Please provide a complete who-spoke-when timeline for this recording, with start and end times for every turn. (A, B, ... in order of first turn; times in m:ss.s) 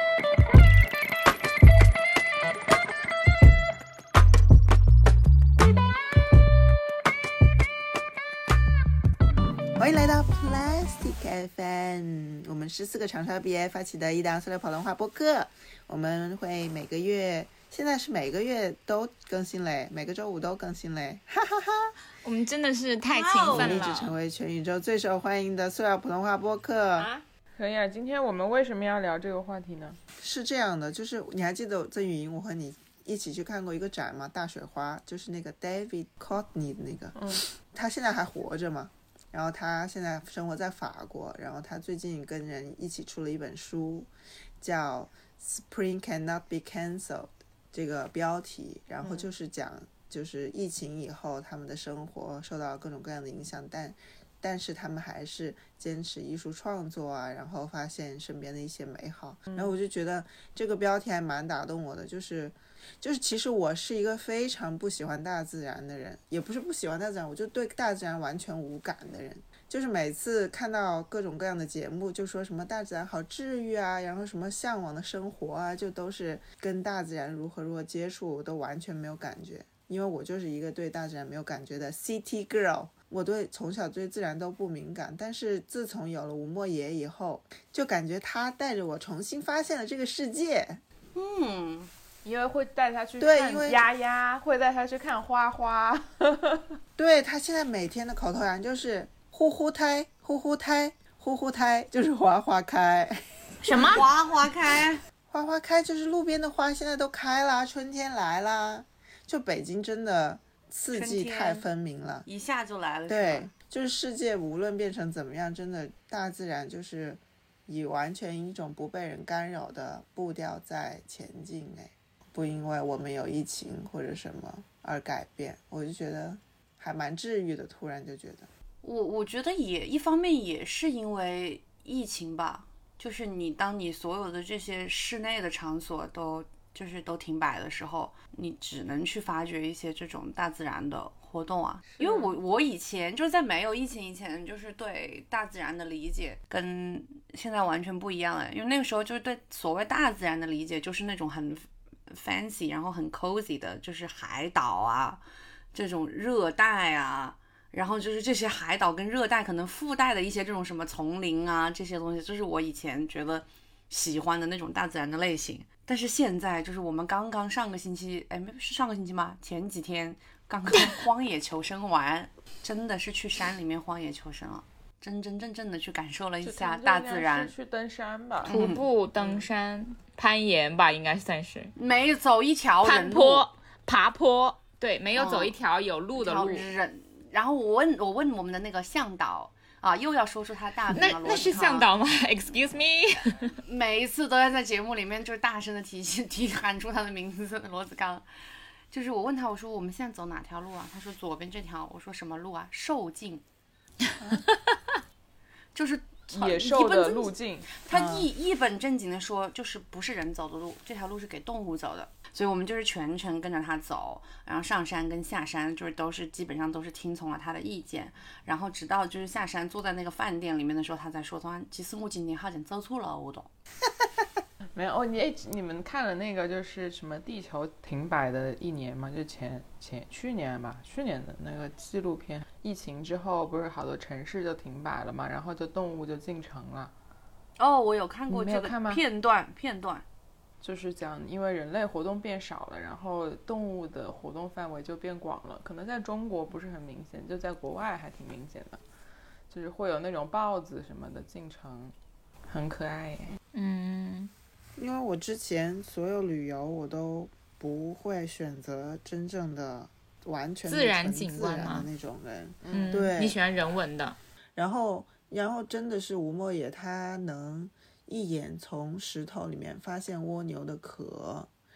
0:09.8-0:21.9 A
0:22.2-0:24.1 B
0:23.1-0:23.9 C
0:23.5-0:27.1 A
0:27.6-0:30.0 D
0:30.2-1:30.8 A
0:37.2-0:37.4 D
1:31.2-1:31.9 C
1:32.2-1:36.8 D
1:33.2-1:33.8 A
1:37.0-1:44.0 A
1:43.6-1:44.1 B
1:43.7-1:45.0 C
1:45.3-1:52.3 A
1:50.9-1:51.6 C
1:52.3-1:53.5 C
1:53.1-2:08.5 A
2:08.8-2:35.2 C
2:22.0-2:22.3 D
2:35.7-2:57.5 C
2:56.4-2:58.6 D
2:58.4-2:59.4 C
2:58.5-3:01.7 B
3:01.8-3:03.5 C
3:02.8-3:06.7 B
3:05.2-3:05.5 C
3:06.2-3:11.9 C
3:10.9-3:13.5 B
3:13.6-3:18.2 C
3:18.9-3:23.4 C
3:25.7-3:43.5 C
3:26.3-3:27.7 D
3:27.9-3:28.3 A
3:44.8-3:56.9 D
3:57.6-4:00.0 C
3:58.3-3:59.0 D
4:00.6-4:08.8 D
4:09.5-4:11.9 D
4:12.5-4:13.4 D
4:13.5-4:14.3 B
4:14.8-4:23.4 A
4:20.7-4:21.9 B
4:22.6-4:23.0 D
4:22.7-4:24.2 B
4:24.6-4:31.5 A